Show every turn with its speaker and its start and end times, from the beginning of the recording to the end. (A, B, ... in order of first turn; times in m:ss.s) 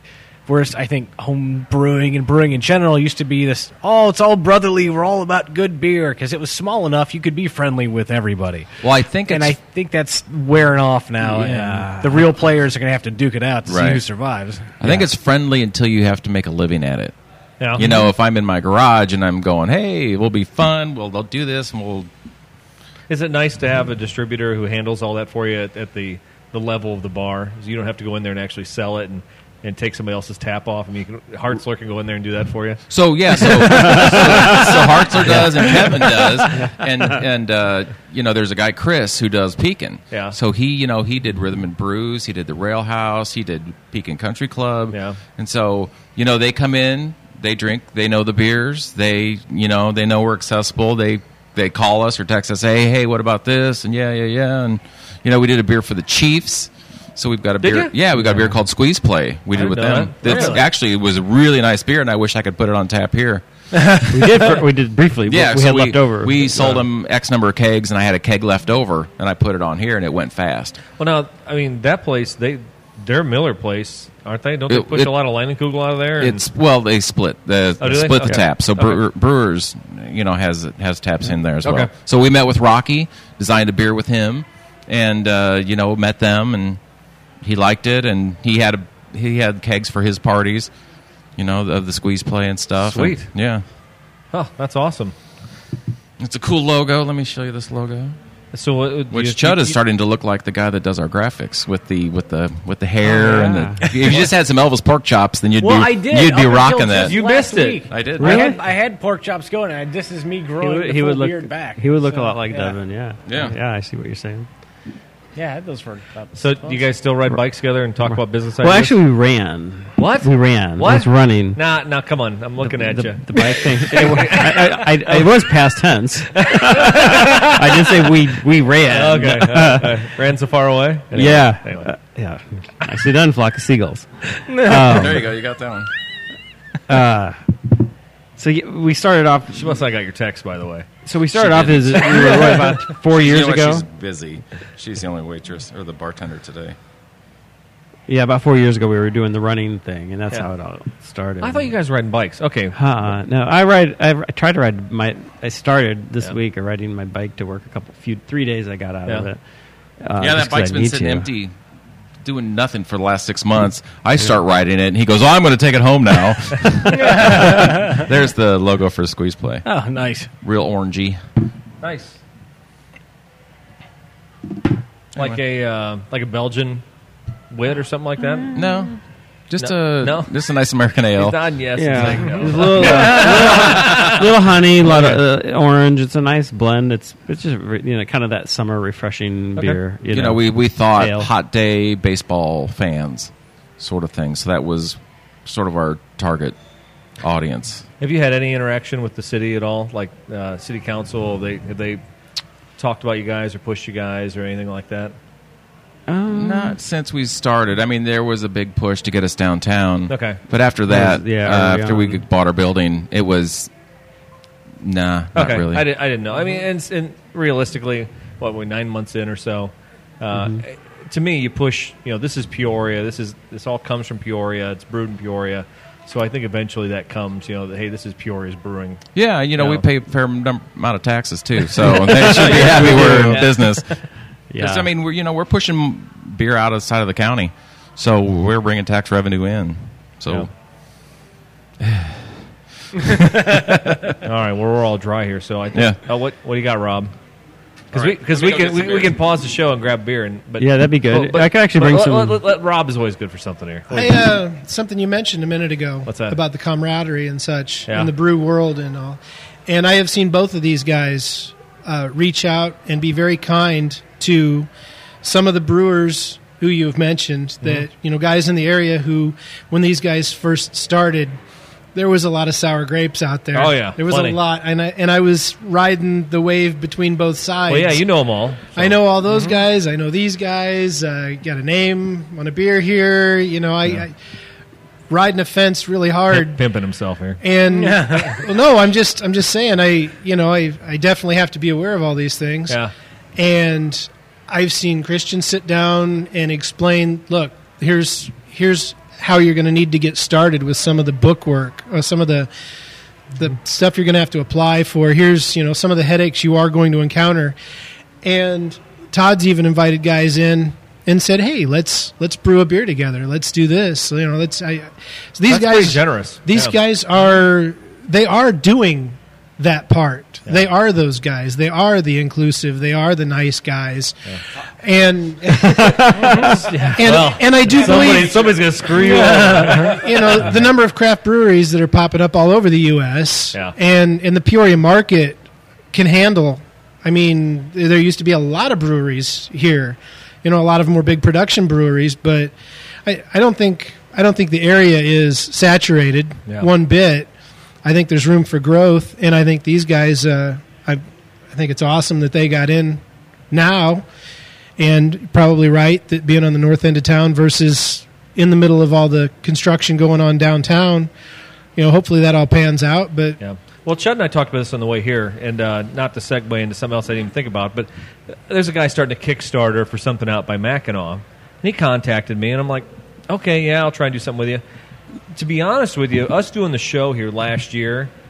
0:00.5-0:08.7 A
0:08.8-0:09.6 B
0:09.3-0:15.1 A
0:11.2-0:12.3 C
0:13.7-0:14.0 B
0:14.8-0:17.1 B
0:17.6-0:17.9 D
0:17.8-0:22.1 B
0:23.1-0:32.8 D
0:32.9-1:03.4 B
0:33.4-0:35.9 D
0:33.7-0:34.7 C
0:44.9-0:45.2 D
0:57.6-0:57.9 D
0:58.2-0:58.5 C
0:59.5-1:00.6 D
1:00.2-1:00.6 A
1:03.9-1:04.2 A
1:04.1-1:06.8 C
1:05.3-1:10.8 B
1:11.0-1:16.4 D
1:14.7-1:15.1 B
1:16.2-1:26.8 B
1:17.8-1:19.0 D
1:21.6-1:21.9 D
1:27.4-1:30.7 B
1:31.4-1:33.6 B
1:32.9-1:33.3 D
1:34.3-1:35.1 D
1:36.2-1:38.2 B
1:38.5-1:39.8 D
1:39.1-1:47.2 B
1:43.0-1:43.9 C
1:45.6-1:52.8 A
1:47.0-1:48.1 D
1:47.9-1:48.4 B
1:48.2-1:48.6 C
1:50.6-1:54.5 C
1:53.3-1:53.6 B
1:55.4-1:56.9 A
1:56.4-1:59.0 D
1:58.6-2:01.6 C
2:00.0-2:05.5 D
2:02.6-2:10.0 C
2:06.3-2:07.6 D
2:08.8-2:11.9 D
2:11.1-2:15.3 C
2:14.5-2:15.2 A
2:14.7-2:15.9 B
2:16.9-2:17.4 C
2:18.4-2:19.8 C
2:19.5-2:20.9 D
2:21.1-2:23.9 C
2:21.3-2:22.2 B
2:21.7-2:22.8 D
2:23.1-2:26.8 B
2:28.1-2:31.7 C
2:31.4-2:32.8 D
2:32.8-2:39.4 C
2:40.0-2:41.3 C
2:40.2-2:41.6 B
2:42.2-2:49.7 B
2:46.9-2:48.1 A
2:49.6-2:50.3 A
2:50.4-2:51.2 B
2:51.8-2:52.2 D
2:55.2-2:56.8 D
2:57.5-2:58.6 D
2:58.4-2:58.9 C
2:58.5-2:59.0 B
2:59.5-3:03.0 B
2:59.6-3:00.3 D
3:01.2-3:04.3 D
3:01.8-3:11.3 C
3:04.9-3:05.2 D
3:10.1-3:16.6 B
3:17.2-3:17.8 B
3:18.0-3:22.0 D
3:22.8-3:25.2 D
3:26.1-3:26.8 C
3:26.3-3:33.7 B
3:30.1-3:30.4 D
3:30.9-3:32.2 C
3:34.8-3:35.9 B
3:35.4-3:49.8 D
3:40.3-3:40.6 C
3:49.2-3:53.9 B
3:52.0-3:53.5 C
3:52.2-3:53.6 D
3:54.5-3:54.9 C
3:54.6-4:00.5 B
4:01.8-4:02.3 B
4:03.0-4:04.2 B
4:04.2-4:07.1 D
4:05.7-4:06.0 B
4:07.9-4:14.2 D
4:07.9-4:09.2 B
4:10.6-4:12.4 C
4:13.9-4:24.7 E
4:16.1-4:16.4 D
4:17.9-4:18.1 D
4:25.2-4:31.4 E
4:32.0-4:38.0 E
4:33.5-4:34.4 D
4:37.7-4:39.5 D
4:38.7-4:44.1 E
4:45.1-4:46.6 E
4:46.3-4:47.4 D
4:47.4-4:52.8 E
4:47.7-4:48.4 A
4:52.7-4:52.9 D
4:53.4-5:02.5 E
5:03.4-5:07.6 E
5:08.2-5:24.2 E
5:15.5-5:16.8 D
5:24.8-5:42.5 E
5:26.3-5:30.6 D
5:28.9-5:30.0 A
5:43.0-5:47.3 E
5:47.8-5:54.0 E
5:54.8-6:01.1 E
6:01.8-6:03.4 E
6:03.4-6:07.9 D
6:08.5-6:14.6 D
6:15.3-6:18.1 D